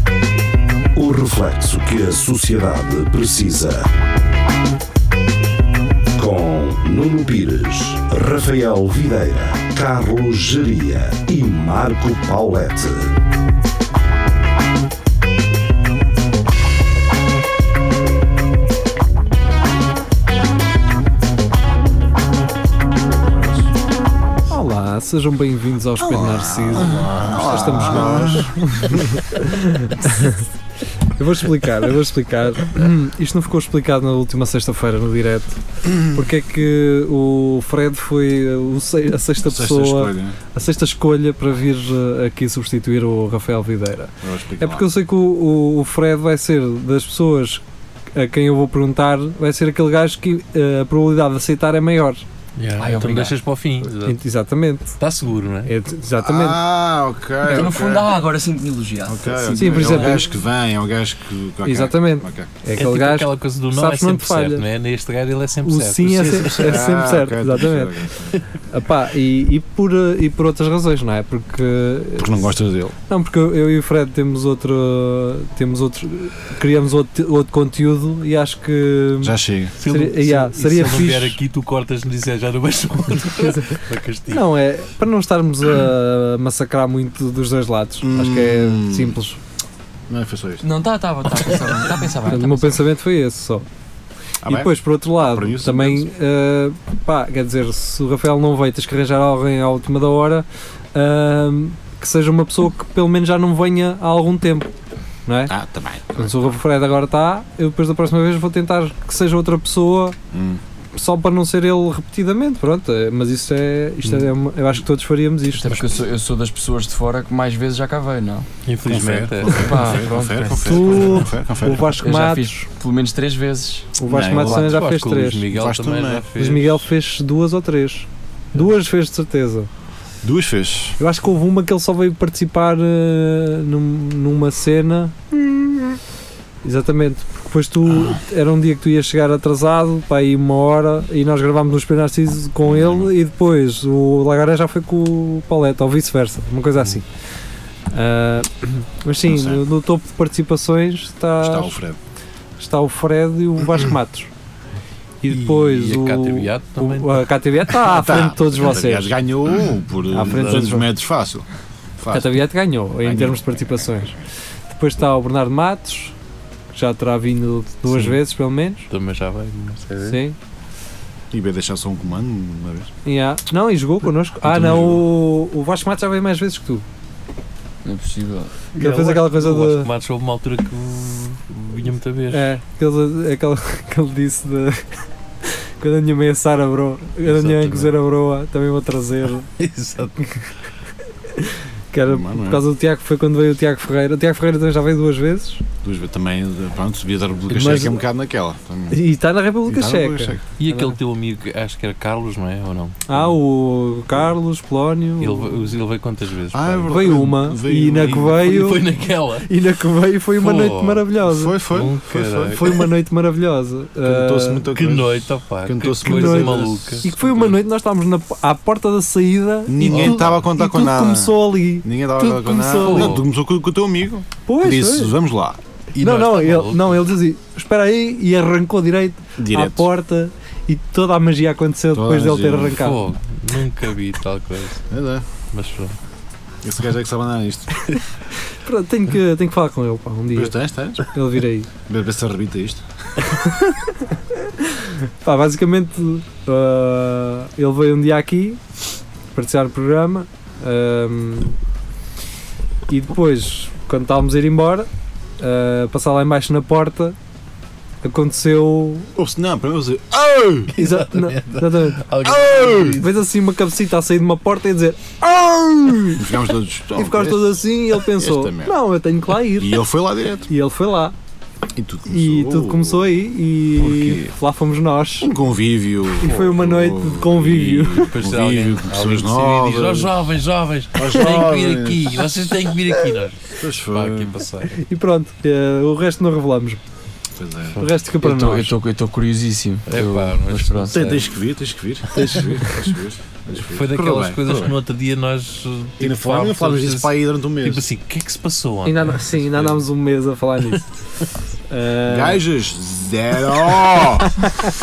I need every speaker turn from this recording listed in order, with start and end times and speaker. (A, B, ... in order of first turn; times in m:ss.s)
0:00.9-0:03.9 A
0:06.2-0:13.1 A
0:24.5-0:30.5 B
0:26.0-0:29.0 C
0:31.1-0:47.6 B
0:39.4-0:40.4 C
0:44.2-0:44.9 C
0:48.1-0:52.2 B
0:52.6-0:54.2 D
0:52.8-0:53.4 E
0:54.0-0:55.0 B
0:55.0-0:55.7 D
0:55.7-0:56.6 B
0:56.1-0:58.2 C
0:57.5-1:00.3 E
0:59.0-1:02.5 C
0:59.6-1:00.3 B
1:01.6-1:04.6 B
1:02.8-1:06.5 D
1:05.6-1:07.9 B
1:06.0-1:08.4 C
1:08.7-1:12.6 B
1:12.2-1:12.9 C
1:13.1-1:21.4 B
1:19.2-1:19.8 C
1:19.8-1:24.4 D
1:23.3-1:29.4 B
1:28.0-1:29.2 C
1:30.1-1:30.6 C
1:30.6-1:32.9 E
1:32.3-1:33.6 B
1:34.4-1:36.1 C
1:34.4-1:44.7 B
1:45.2-1:45.5 B
1:45.5-1:46.6 C
1:46.1-1:50.2 B
1:50.3-1:50.6 C
1:50.9-1:55.8 B
1:55.6-1:58.5 E
1:55.7-1:56.0 D
1:58.6-1:59.9 D
1:58.8-2:02.0 C
1:59.6-2:01.1 E
2:00.6-2:02.6 B
2:02.0-2:04.7 E
2:04.0-2:05.4 B
2:04.1-2:04.8 C
2:04.5-2:06.8 D
2:05.5-2:06.3 C
2:06.4-2:09.7 B
2:10.2-2:11.0 C
2:11.0-2:16.0 B
2:16.6-2:27.0 B
2:22.6-2:23.1 C
2:27.9-2:31.8 B
2:29.2-2:29.6 C
2:31.4-2:32.0 C
2:32.6-2:34.3 B
2:35.2-2:39.1 B
2:35.3-2:37.3 D
2:37.7-2:41.4 C
2:40.1-2:40.9 B
2:40.2-2:40.7 D
2:42.0-2:42.4 C
2:42.1-2:44.1 B
2:43.0-2:44.0 C
2:44.7-2:46.1 B
2:46.7-2:48.9 B
2:47.9-2:48.2 D
2:48.9-2:50.2 D
2:50.0-2:50.4 B
2:51.3-2:52.9 C
2:53.0-2:56.8 B
2:54.4-2:55.0 C
2:57.8-2:58.6 E
2:58.7-3:02.5 D
2:58.8-2:59.9 B
3:02.3-3:04.8 B
3:05.4-3:09.5 B
3:07.2-3:07.9 D
3:09.6-3:10.2 D
3:11.3-3:15.6 B
3:12.0-3:12.6 C
3:15.8-3:19.0 C
3:17.5-3:18.0 B
3:18.9-3:21.0 B
3:19.6-3:20.4 C
3:20.6-3:23.2 D
3:23.1-3:25.7 B
3:25.2-3:27.1 D
3:26.5-3:28.5 C
3:26.9-3:28.9 B
3:28.2-3:29.5 D
3:29.4-3:31.6 B
3:30.4-3:31.1 D
3:31.2-3:32.8 C
3:31.7-3:32.6 D
3:32.5-3:34.7 B
3:34.0-3:37.5 C
3:34.7-3:37.1 D
3:36.0-3:43.2 B
3:39.7-3:45.6 C
3:39.9-3:40.4 D
3:42.8-3:43.2 D
3:44.5-3:45.2 B
3:45.9-3:46.9 D
3:46.0-3:53.0 B
3:49.4-3:49.9 C
3:51.9-3:52.8 C
3:52.8-3:54.8 D
3:54.9-3:55.2 C
3:55.5-3:55.9 D
3:56.6-3:57.7 C
3:58.6-4:01.7 B
4:00.3-4:01.1 C
4:01.8-4:02.8 C
4:03.2-4:08.6 B
4:09.3-4:11.6 B
4:12.9-4:14.9 B
4:15.4-4:17.2 B
4:18.0-4:19.1 B
4:19.2-4:20.7 C
4:20.7-4:23.1 D
4:20.8-4:22.1 B
4:22.2-4:23.0 C
4:23.0-4:26.2 B
4:26.2-4:28.8 C
4:26.9-4:29.8 B
4:29.4-4:30.5 C
4:30.5-4:31.1 B
4:31.7-4:33.1 C
4:32.1-4:35.3 B
4:33.8-4:34.3 C
4:35.2-4:40.1 C
4:36.2-4:38.1 B
4:38.0-4:44.8 D
4:41.0-4:42.3 C
4:43.5-4:44.3 C
4:44.8-4:46.8 B
4:47.4-4:47.8 C
4:47.8-4:48.8 B
4:48.2-4:51.0 E
4:49.9-4:51.3 D
4:50.9-4:54.7 C
4:52.1-4:52.5 D
4:53.6-4:59.8 D
4:56.0-4:57.8 C
4:58.8-5:00.9 B
5:01.7-5:02.4 B
5:02.0-5:04.5 C
5:04.4-5:04.7 B